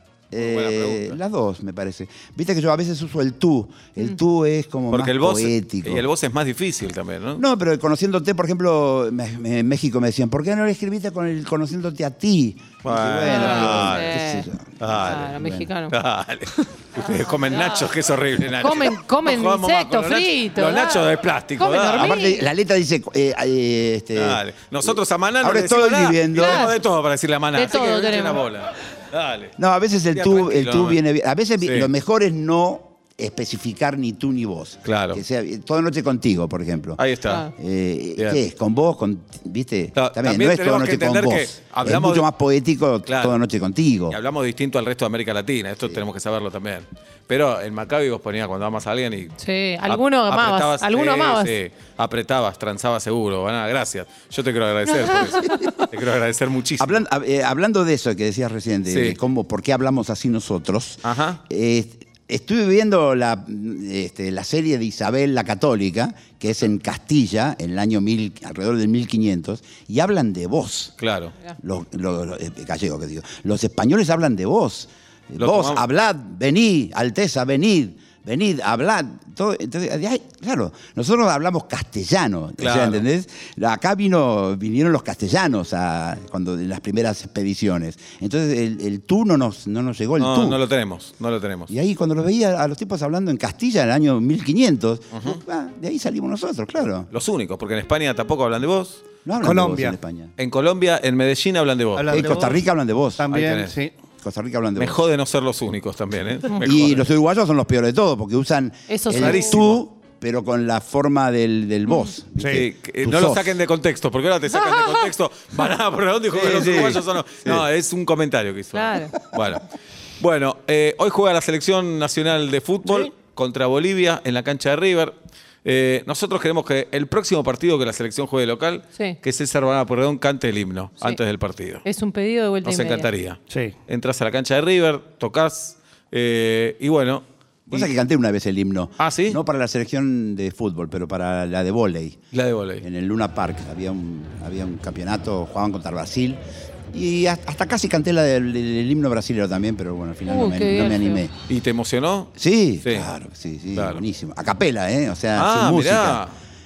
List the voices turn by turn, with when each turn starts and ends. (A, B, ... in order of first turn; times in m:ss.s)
0:00.3-0:06.0 A
0:00.4-0:01.2 B
0:04.9-0:07.4 B
0:07.4-0:15.7 A
0:12.8-0:14.2 B
0:13.2-0:14.5 C
0:14.8-0:15.3 B
0:15.0-0:16.0 C
0:15.9-0:22.1 B
0:17.4-0:17.9 C
0:18.6-0:22.4 C
0:21.9-0:26.7 A
0:24.2-0:29.5 B
0:26.4-0:26.8 C
0:27.6-0:28.4 C
0:29.6-0:37.0 A
0:30.1-0:31.0 B
0:31.6-0:31.9 B
0:34.8-0:35.2 B
0:37.0-0:37.5 B
0:37.5-0:44.2 A
0:40.0-0:42.3 B
0:43.1-0:43.4 B
0:44.1-0:49.4 B
0:49.4-0:51.6 C
0:49.9-0:57.0 B
0:54.9-0:55.7 C
0:55.4-0:55.7 A
0:56.8-1:11.0 A
0:58.9-0:59.2 B
1:01.0-1:01.4 B
1:11.0-1:11.3 B
1:11.6-1:30.6 A
1:15.4-1:15.8 B
1:22.6-1:23.0 B
1:30.2-1:31.7 B
1:31.7-1:37.1 A
1:35.1-1:35.4 B
1:37.1-1:39.0 B
1:39.2-1:40.3 A
1:39.4-1:40.0 D
1:40.4-1:42.6 B
1:42.0-1:42.6 D
1:42.1-1:43.3 A
1:43.2-1:43.9 D
1:43.3-1:43.8 B
1:44.2-1:45.0 A
1:44.8-1:47.1 B
1:46.6-1:53.6 A
1:48.9-1:49.6 C
1:49.2-1:49.8 B
1:52.5-1:59.6 B
1:54.5-1:55.1 C
1:56.3-1:57.7 A
1:58.8-1:59.2 C
2:00.2-2:11.8 B
2:11.8-2:13.1 C
2:12.6-2:17.9 B
2:17.7-2:22.2 A
2:19.0-2:19.4 B
2:22.3-2:22.8 B
2:22.8-2:26.4 A
2:26.9-2:31.3 A
2:30.3-2:31.2 C
2:31.5-2:33.1 B
2:32.4-2:36.2 A
2:33.8-2:34.0 B
2:35.4-2:36.3 B